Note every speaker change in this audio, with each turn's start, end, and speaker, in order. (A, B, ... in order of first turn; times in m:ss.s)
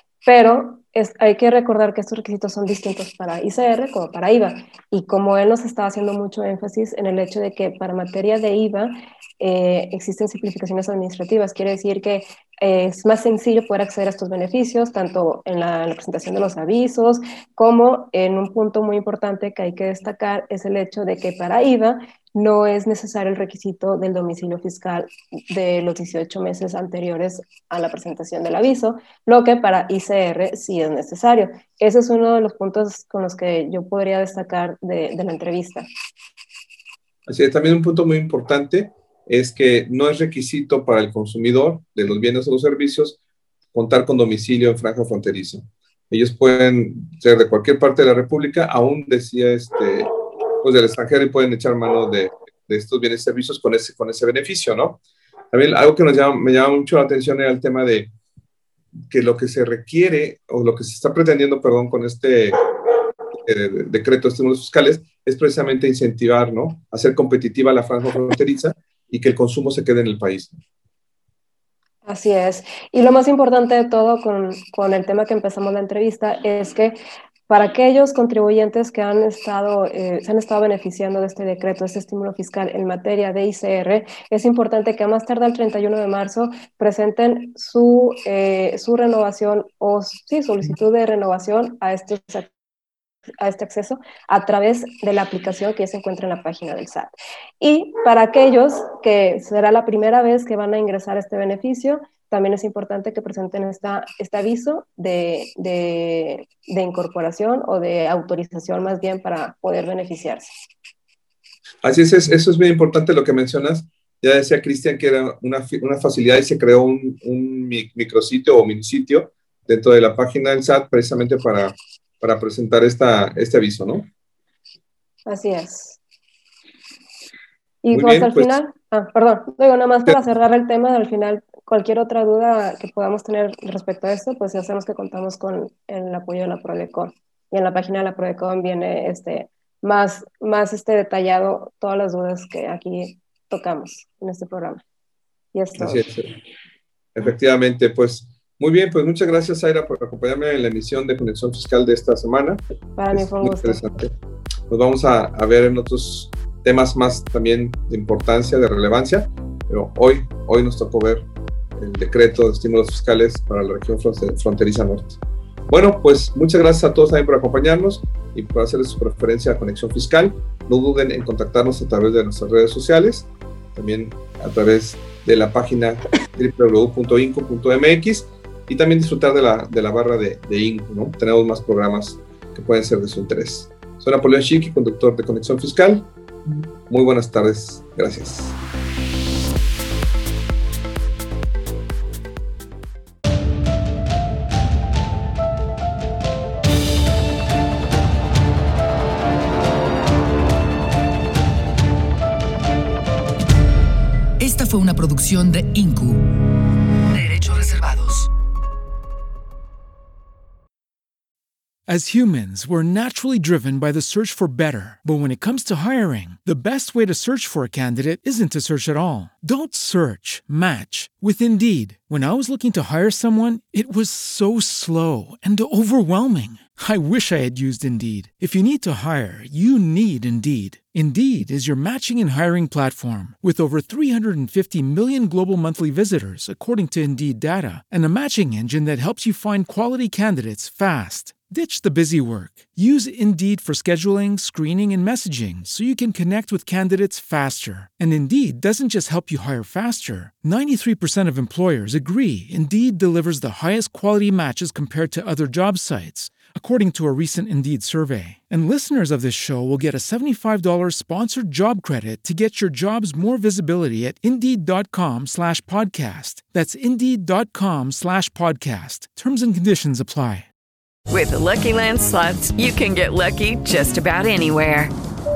0:00.2-0:35.9 A
0:37.3-0:43.2 B
0:43.7-0:55.0 B
0:55.5-0:58.1 B
0:59.1-1:02.7 B
1:03.4-1:10.6 B
1:12.1-1:17.0 A
1:17.5-1:32.5 A
1:33.4-1:50.5 A
1:51.8-2:04.1 B
2:05.3-2:06.0 A
2:07.8-2:24.8 A
2:07.9-2:08.5 B
2:25.5-2:26.1 A
2:25.8-2:26.4 B
2:27.2-2:34.1 B
2:33.0-2:33.8 A
2:34.7-3:06.1 B
3:06.9-3:08.6 B
3:24.4-3:26.4 C
3:27.1-3:28.3 C
3:31.9-4:30.5 D
4:31.1-4:34.9 E